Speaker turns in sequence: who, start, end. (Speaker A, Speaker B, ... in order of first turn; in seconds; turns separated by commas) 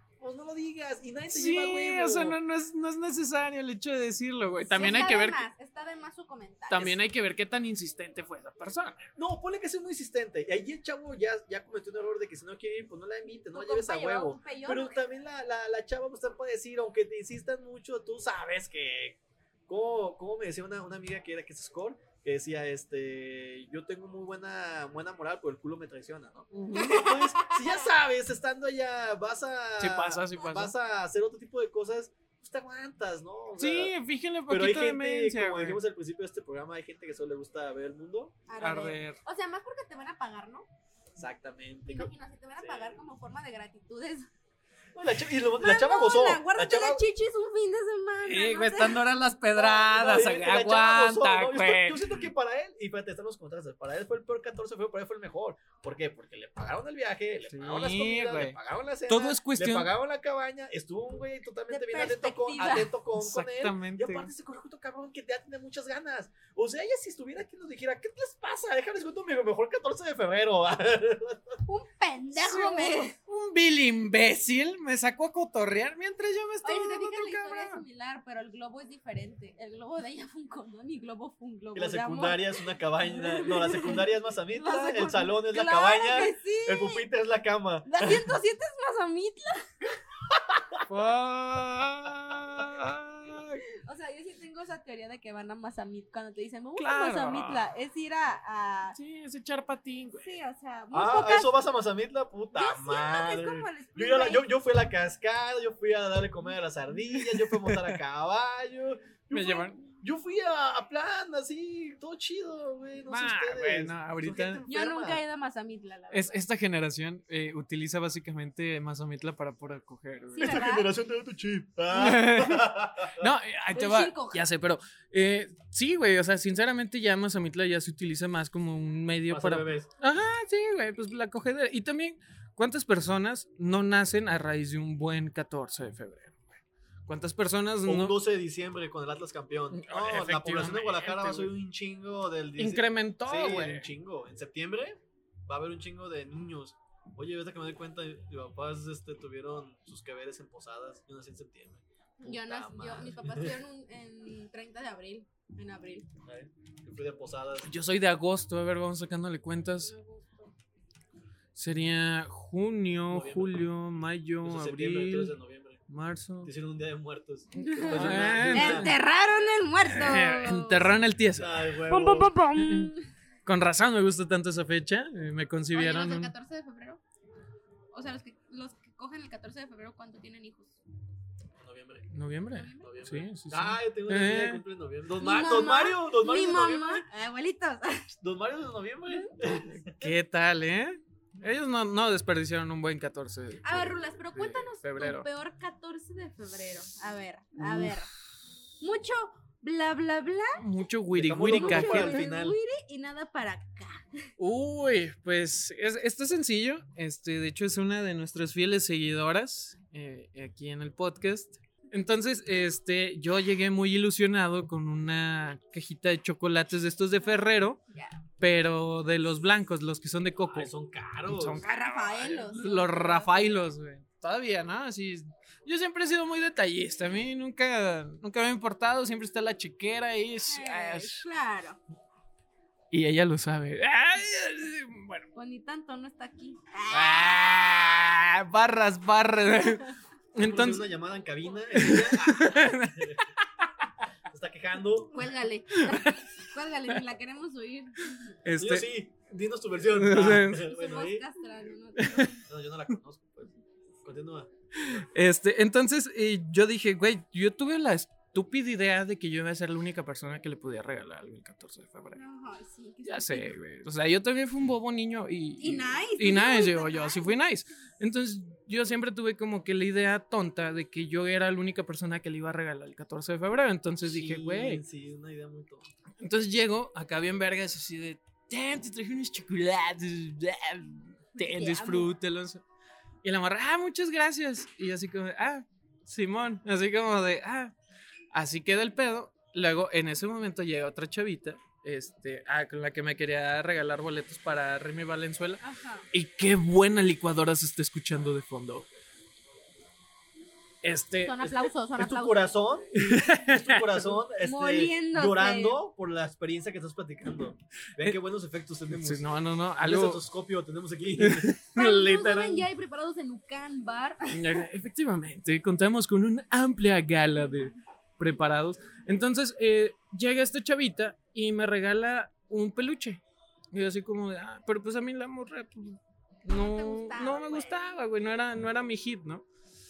Speaker A: 0.2-2.4, Speaker B: 1.3-5.5, Speaker C: 4.7-7.0, Speaker B: 6.7-9.1, Speaker A: 9.2-33.9, Speaker C: 13.5-15.0, Speaker B: 26.5-27.1, Speaker C: 26.7-27.9, Speaker B: 29.8-30.7, Speaker B: 33.6-35.8, Speaker A: 34.5-38.4, Speaker C: 38.5-40.7, Speaker B: 38.6-39.2, Speaker A: 41.2-43.0, Speaker C: 41.9-44.3, Speaker A: 44.9-47.1, Speaker C: 45.6-49.0, Speaker B: 48.2-52.3, Speaker A: 49.5-71.6, Speaker B: 57.5-59.9, Speaker C: 61.7-62.9, Speaker B: 63.2-64.3, Speaker C: 71.7-73.2, Speaker B: 72.4-77.8, Speaker C: 76.6-87.1, Speaker A: 81.8-88.3, Speaker C: 87.9-89.7, Speaker A: 90.5-90.8, Speaker B: 90.9-93.6, Speaker C: 93.8-99.0, Speaker B: 96.8-97.7, Speaker B: 99.0-100.3, Speaker C: 100.2-101.5, Speaker A: 100.9-115.2, Speaker C: 102.5-104.5, Speaker B: 107.2-108.0, Speaker B: 109.3-109.8, Speaker B: 113.1-114.7, Speaker C: 114.7-116.4, Speaker B: 116.1-120.6, Speaker C: 120.3-120.9, Speaker A: 120.4-123.3, Speaker B: 121.9-136.5, Speaker C: 123.7-124.4, Speaker A: 129.3-129.9, Speaker B: 137.1-138.2, Speaker A: 137.8-153.6, Speaker B: 139.7-141.5, Speaker B: 142.6-143.9, Speaker C: 152.2-156.1, Speaker A: 156.3-157.7, Speaker B: 157.6-159.9, Speaker C: 159.8-160.5, Speaker B: 161.6-165.4, Speaker A: 163.1-163.6, Speaker A: 164.4-165.8, Speaker B: 165.9-166.5, Speaker A: 166.4-169.0, Speaker C: 167.6-171.1, Speaker B: 167.6-169.0, Speaker B: 169.9-172.9, Speaker A: 171.4-172.4, Speaker C: 171.9-173.1, Speaker B: 173.4-176.3, Speaker C: 175.7-177.0, Speaker C: 177.9-180.8, Speaker A: 181.6-182.1, Speaker B: 182.1-184.6, Speaker C: 182.5-182.9, Speaker A: 182.8-187.1, Speaker C: 185.2-188.1, Speaker A: 188.2-190.1, Speaker C: 189.1-189.3, Speaker B: 189.5-195.3, Speaker C: 193.6-198.1, Speaker B: 197.6-197.9, Speaker C: 198.8-200.6, Speaker B: 200.6-202.2, Speaker A: 201.1-202.6, Speaker C: 201.4-204.3, Speaker B: 204.4-217.8, Speaker C: 217.9-218.2, Speaker B: 218.4-220.7, Speaker A: 220.5-221.6, Speaker B: 221.3-231.3, Speaker C: 221.6-223.6, Speaker C: 230.5-231.8, Speaker B: 232.9-235.3, Speaker C: 235.3-237.8, Speaker B: 236.9-240.9, Speaker A: 240.4-243.3, Speaker B: 241.7-243.9, Speaker A: 244.3-245.3, Speaker C: 245.1-248.0, Speaker B: 245.7-246.2, Speaker B: 248.4-248.9, Speaker A: 248.6-251.2, Speaker B: 249.9-250.7, Speaker C: 250.6-252.4, Speaker B: 252.0-252.3, Speaker A: 252.3-254.5, Speaker B: 254.8-262.2, Speaker C: 262.1-263.5, Speaker B: 263.1-274.8, Speaker C: 265.6-267.3, Speaker A: 274.1-275.9, Speaker B: 276.2-282.6, Speaker C: 281.4-282.1, Speaker B: 283.2-287.7, Speaker B: 288.3-298.9, Speaker C: 295.6-296.1, Speaker B: 300.8-301.7, Speaker C: 301.2-302.5, Speaker A: 302.0-309.3, Speaker B: 302.9-304.2, Speaker C: 304.4-305.8, Speaker B: 308.9-310.2, Speaker A: 309.8-312.7, Speaker B: 311.2-311.7, Speaker C: 311.8-314.6, Speaker B: 314.3-323.2, Speaker B: 323.7-329.4, Speaker C: 326.5-327.8